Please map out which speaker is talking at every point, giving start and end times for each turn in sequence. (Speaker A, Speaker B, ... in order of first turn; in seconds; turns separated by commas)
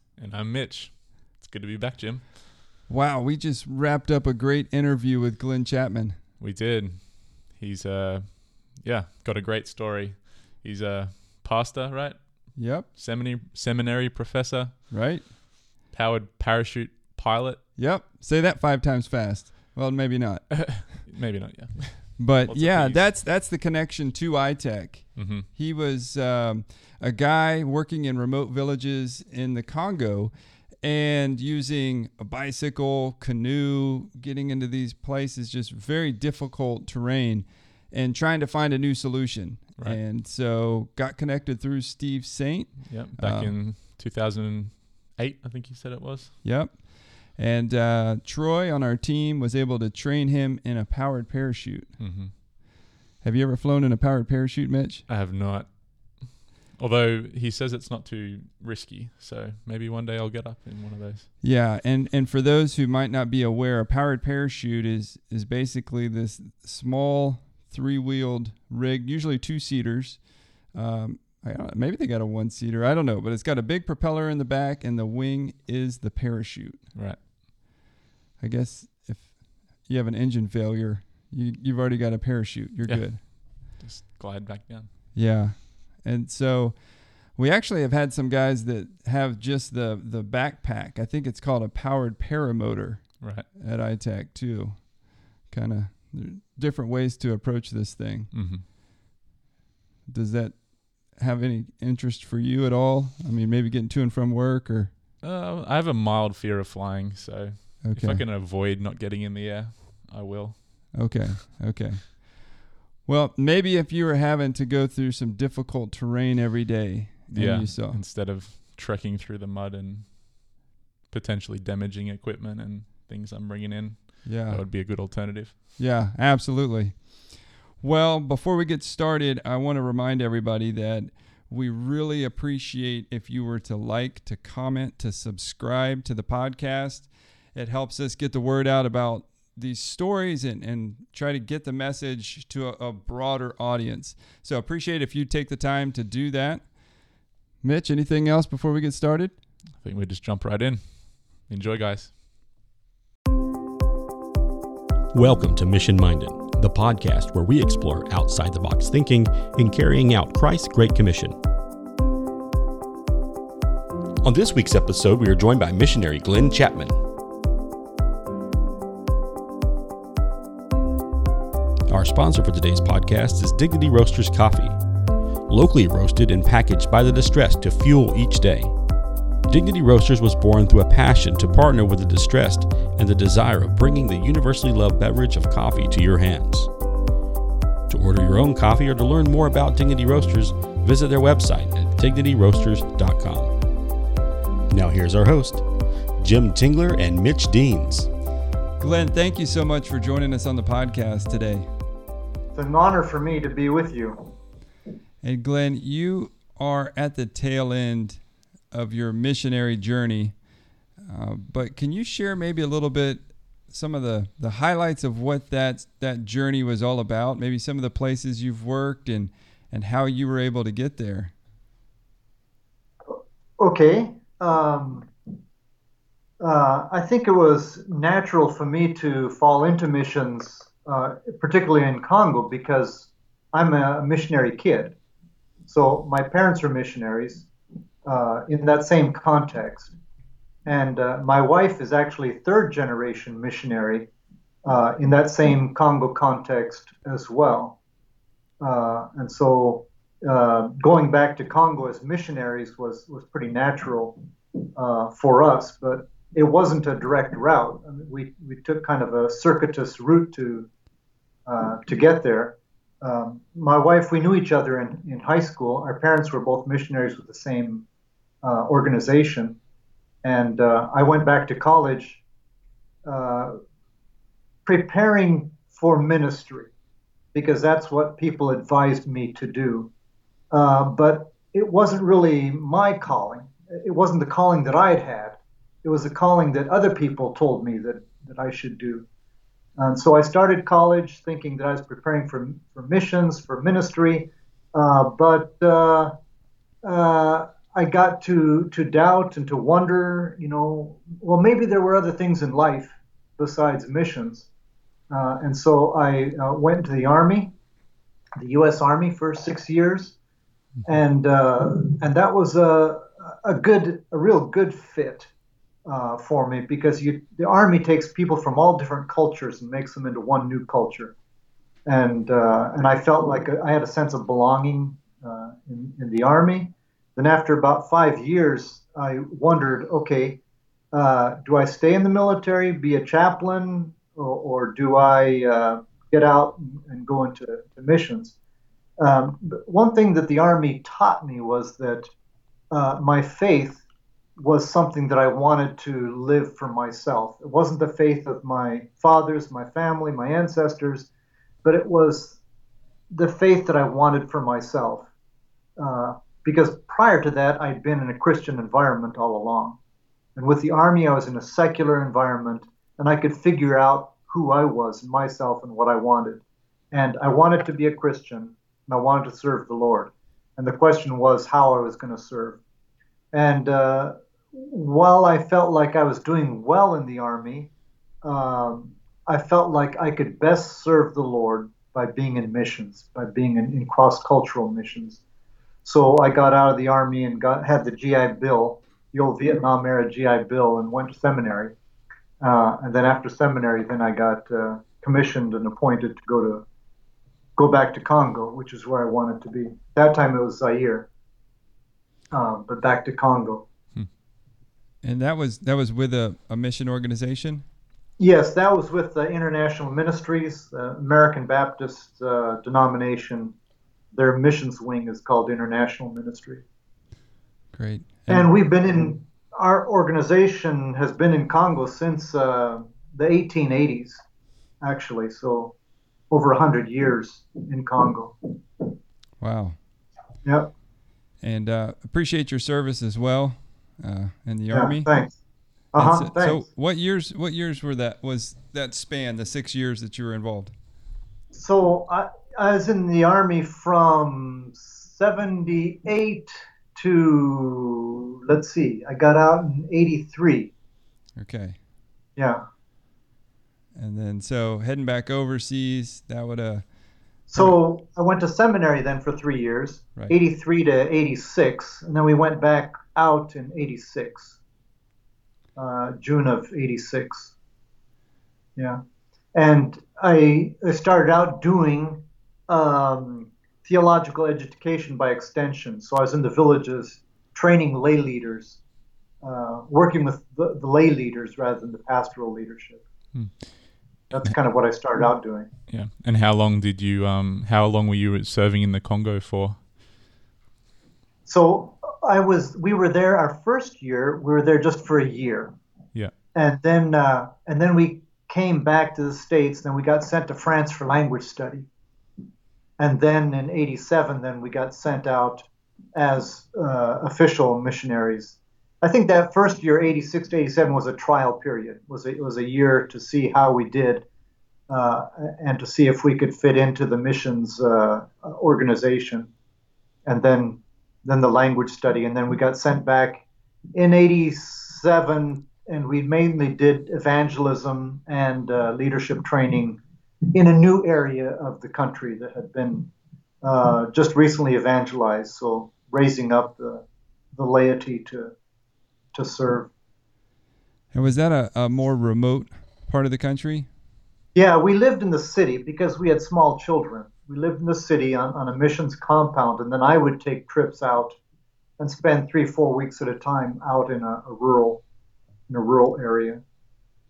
Speaker A: 0.1-2.5, Speaker B: 2.9-6.2, Speaker A: 6.4-15.3, Speaker B: 12.5-12.9, Speaker B: 14.9-15.3, Speaker A: 15.9-17.6, Speaker B: 17.8-21.0, Speaker A: 20.6-23.1, Speaker B: 22.2-43.5, Speaker A: 25.1-25.5, Speaker A: 42.9-46.3, Speaker B: 46.4-52.4, Speaker A: 52.0-52.3, Speaker B: 53.2-55.0, Speaker A: 55.1-61.3, Speaker B: 61.4-76.9, Speaker A: 76.9-77.2, Speaker B: 78.4-83.2, Speaker A: 82.8-84.9, Speaker B: 85.1-98.5, Speaker A: 93.2-93.5, Speaker A: 98.3-98.6, Speaker B: 100.1-104.9, Speaker A: 105.2-111.2, Speaker B: 107.8-108.2, Speaker B: 110.9-112.4, Speaker B: 113.0-118.0, Speaker A: 117.3-125.6, Speaker B: 124.2-124.6, Speaker B: 125.8-146.8, Speaker B: 147.6-149.4, Speaker A: 149.8-152.1, Speaker C: 155.1-161.4, Speaker C: 164.2-167.0, Speaker C: 171.9-174.8, Speaker C: 175.5-178.7, Speaker C: 179.5-186.7, Speaker C: 187.9-193.5, Speaker C: 194.7-195.6, Speaker C: 196.2-198.1, Speaker B: 198.8-201.7, Speaker D: 202.5-204.2, Speaker B: 205.2-221.3, Speaker D: 223.1-225.1, Speaker D: 226.4-234.9, Speaker D: 235.7-237.5, Speaker D: 238.0-239.9, Speaker D: 240.7-244.1, Speaker D: 244.6-247.8, Speaker D: 248.6-254.2, Speaker D: 254.8-260.7, Speaker D: 261.5-267.8, Speaker D: 268.4-269.6, Speaker D: 270.2-272.2, Speaker D: 273.0-273.6, Speaker D: 274.6-276.7, Speaker D: 277.3-279.9, Speaker D: 280.5-289.1, Speaker D: 289.8-296.1, Speaker D: 296.8-304.5, Speaker D: 305.1-307.5, Speaker D: 308.4-310.1, Speaker D: 310.8-315.3, Speaker D: 315.9-321.1, Speaker D: 321.9-330.4, Speaker D: 330.9-338.3, Speaker D: 339.0-342.1, Speaker D: 342.7-343.8, Speaker D: 344.4-351.1, Speaker D: 351.6-352.4, Speaker D: 353.1-355.1, Speaker D: 355.8-359.8, Speaker D: 360.4-372.6, Speaker D: 373.3-377.7, Speaker D: 378.2-385.2, Speaker D: 385.8-391.7, Speaker D: 392.4-396.6, Speaker D: 397.6-401.1, Speaker D: 402.3-403.6, Speaker B: 405.0-407.6, Speaker D: 408.2-413.5, Speaker D: 414.1-416.6, Speaker B: 417.7-418.5, Speaker D: 418.3-424.2, Speaker D: 424.8-425.7, Speaker D: 426.3-428.9, Speaker B: 429.4-429.8, Speaker D: 430.4-430.7, Speaker B: 431.4-435.1, Speaker D: 434.7-435.4, Speaker D: 435.9-436.7, Speaker B: 435.9-440.7, Speaker D: 441.5-450.7, Speaker B: 451.4-451.8, Speaker D: 452.4-452.6, Speaker B: 453.9-457.8, Speaker D: 457.5-464.6, Speaker D: 465.8-467.5, Speaker D: 469.5-478.8, Speaker D: 479.4-483.0, Speaker A: 483.3-484.5, Speaker D: 484.3-485.7, Speaker A: 485.9-489.8, Speaker D: 491.4-495.7, Speaker D: 496.5-501.9, Speaker D: 503.0-514.2, Speaker D: 514.9-519.5, Speaker D: 520.2-523.4, Speaker D: 523.9-530.0, Speaker D: 530.5-533.1, Speaker D: 533.6-537.0, Speaker D: 537.5-538.5, Speaker D: 539.3-539.9, Speaker B: 541.1-543.9, Speaker D: 544.5-551.4, Speaker D: 552.0-555.0, Speaker D: 555.7-556.6